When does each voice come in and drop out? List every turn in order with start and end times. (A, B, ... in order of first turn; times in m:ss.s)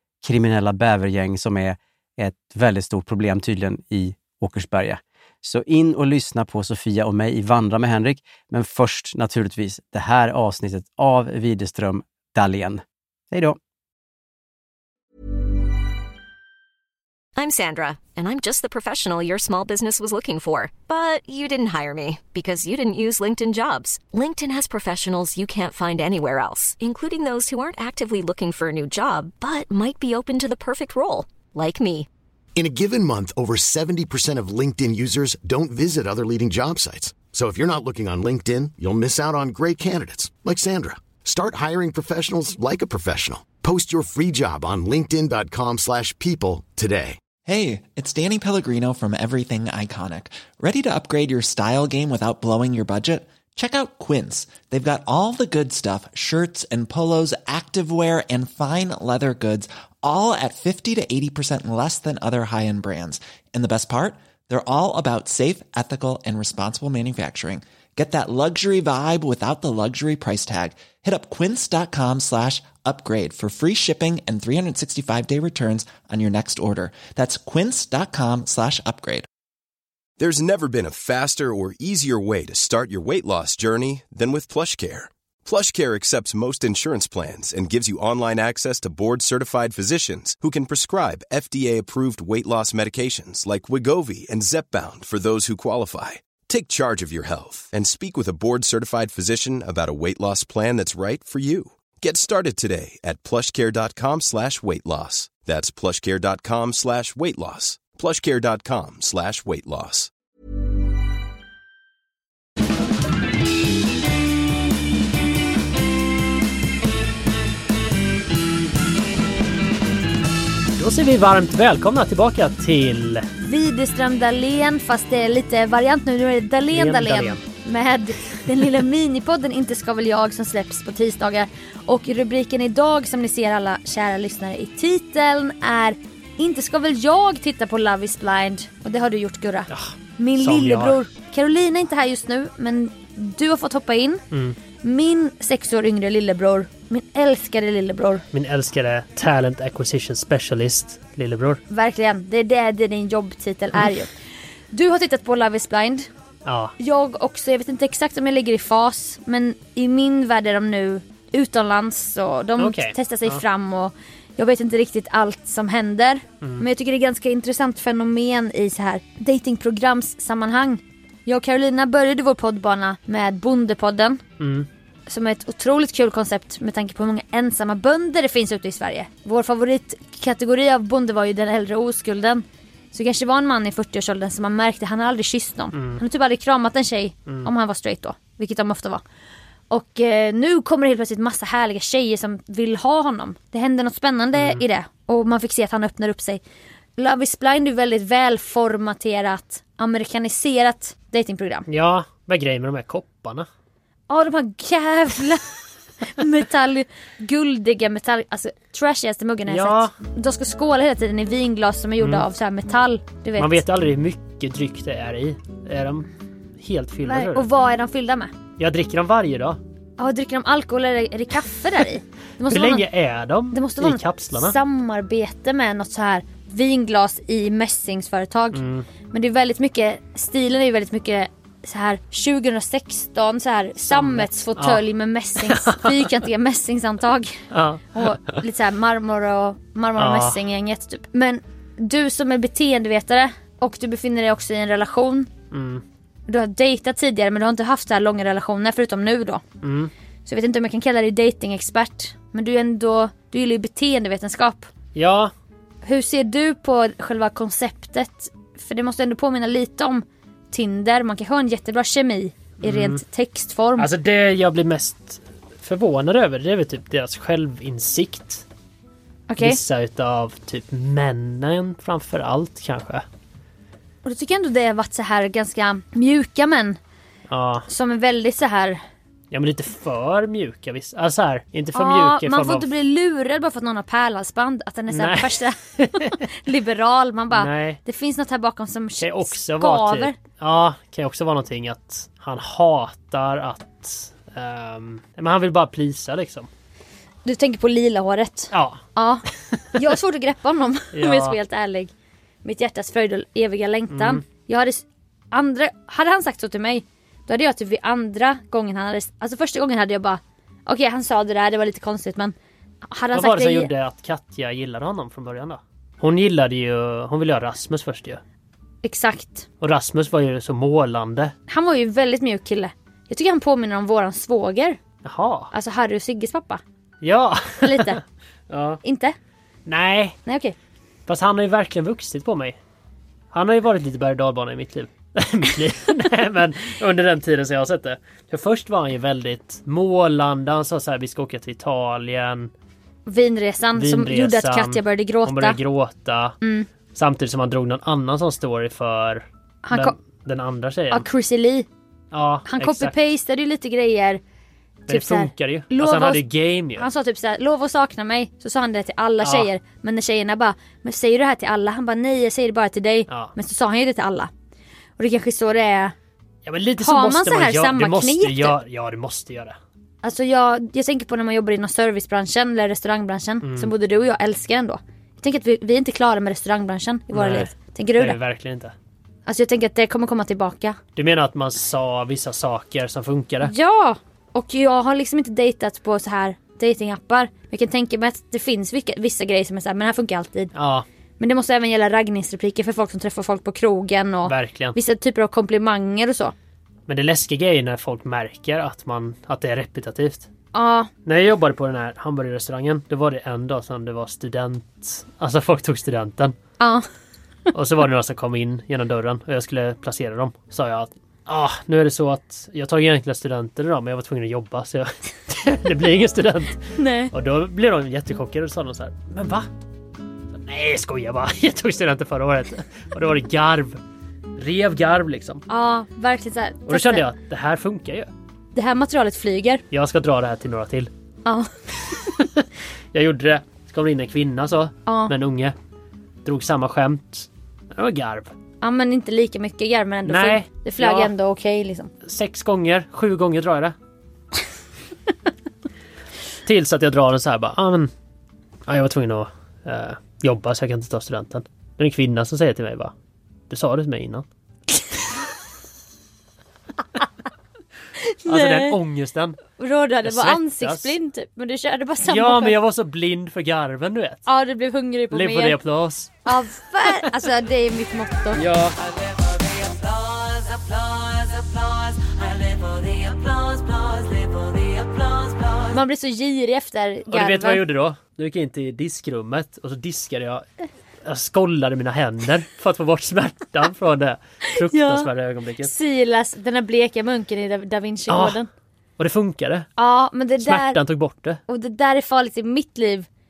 0:00.2-0:13.6 A
0:17.4-0:32.1 B
0:32.6-0:47.2 C
0:47.4-1:19.3 D
1:20.2-1:50.1 E
2:00.8-2:03.3 F
2:03.4-2:24.2 G
2:06.7-2:07.4 F
2:19.7-2:21.0 F
2:24.8-2:28.2 G
2:28.3-2:31.6 F
2:31.7-2:34.1 G
2:34.7-2:36.1 G
2:36.4-2:36.7 F
2:36.8-2:54.2 G
2:42.6-2:43.4 F
2:46.4-2:46.7 F
2:54.4-2:54.7 F
2:55.1-3:09.0 G
3:05.7-3:06.0 F
3:09.7-3:16.4 G
3:14.3-3:14.6 F
3:17.0-3:21.7 G
3:21.7-3:23.5 F
3:24.1-3:25.4 G
3:26.1-3:33.6 G
3:29.5-3:29.9 F
3:32.0-3:32.3 F
3:33.4-3:36.1 F
3:36.6-3:37.5 F
3:37.1-3:38.3 G
3:38.6-3:39.6 F
3:40.0-3:42.8 G
3:42.5-3:44.6 F
3:43.5-3:57.4 G
3:48.5-3:48.9 F
3:53.9-3:54.8 F
3:55.4-3:56.2 F
3:57.5-3:58.1 F
3:57.9-4:05.3 G
4:00.0-4:00.4 F
4:05.5-4:05.8 F
4:06.3-4:09.4 G
4:09.6-4:09.9 F
4:10.3-4:14.7 G
4:15.0-4:15.3 F
4:15.8-4:23.9 G
4:22.6-4:23.0 F
4:23.8-4:28.4 F
4:29.3-4:29.6 G
4:29.4-4:33.0 F
4:34.0-4:36.8 G
4:37.3-4:37.7 F
4:37.7-4:38.8 G
4:39.3-4:42.7 F
4:41.8-4:50.2 G
4:44.9-4:46.2 F
4:47.3-4:47.8 F
4:49.0-4:56.5 F
4:57.2-5:01.9 G
4:58.5-4:58.8 F
5:00.9-5:01.4 F
5:02.4-5:12.4 G
5:03.9-5:04.2 F
5:12.9-5:13.7 G
5:13.1-5:18.2 F
5:18.8-5:19.5 G
5:19.6-5:21.3 F
5:21.5-5:24.8 G
5:25.0-5:25.5 F
5:25.5-5:26.6 G
5:27.0-5:28.8 F
5:27.6-5:28.0 G
5:28.8-5:29.2 G
5:29.7-5:30.2 F
5:30.3-5:30.6 G
5:31.1-5:32.6 F
5:33.3-5:42.5 F
5:43.1-5:45.6 G
5:43.8-5:46.4 F
5:46.4-5:46.7 G
5:47.0-5:51.0 F
5:49.6-5:50.0 G
5:50.9-5:51.7 G
5:52.1-5:53.0 F
5:52.5-5:54.2 G
5:54.9-5:56.2 G
5:54.9-5:56.9 F
5:56.8-6:04.3 G
5:59.2-5:59.5 F
6:03.1-6:03.3 F
6:05.0-6:06.0 G
6:06.4-6:09.6 F
6:06.8-6:08.6 G
6:10.0-6:18.2 G
6:13.4-6:13.7 F
6:17.1-6:18.7 F
6:19.3-6:20.8 G
6:21.0-6:23.5 F
6:23.4-6:30.5 G
6:30.5-6:30.9 F
6:31.2-6:36.3 G
6:34.3-6:34.8 F
6:36.9-6:40.3 F
6:40.5-6:40.9 G
6:41.1-6:46.3 F
6:46.6-6:46.9 G
6:47.5-6:59.5 F
6:56.8-6:57.1 G
7:00.4-7:03.8 F
7:04.4-7:05.4 F
7:05.5-7:07.0 G
7:06.7-7:08.1 F
7:08.6-7:09.6 G
7:09.7-7:10.9 F
7:11.2-7:12.0 G
7:12.2-7:15.5 F
7:14.9-7:15.1 G
7:16.2-7:18.3 F
7:18.6-7:21.9 G
7:20.0-7:21.1 F
7:22.0-7:23.8 F
7:26.5-7:27.9 F
7:28.7-7:32.9 F
7:33.5-7:34.2 F
7:38.0-7:38.8 G
7:38.3-7:39.4 F
7:39.6-7:42.6 G
7:40.0-7:40.9 F
7:42.0-7:44.2 F
7:44.3-7:45.6 G
7:45.1-7:46.1 F
7:46.3-7:48.4 G
7:48.3-7:48.8 F
7:55.7-7:57.6 G
7:57.1-8:00.4 F
8:01.0-8:05.7 F
8:04.7-8:05.1 G
8:05.6-8:08.5 G
8:08.1-8:08.4 F
8:09.0-8:09.7 F
8:09.8-8:10.8 G
8:10.4-8:11.4 F
8:11.5-8:13.1 G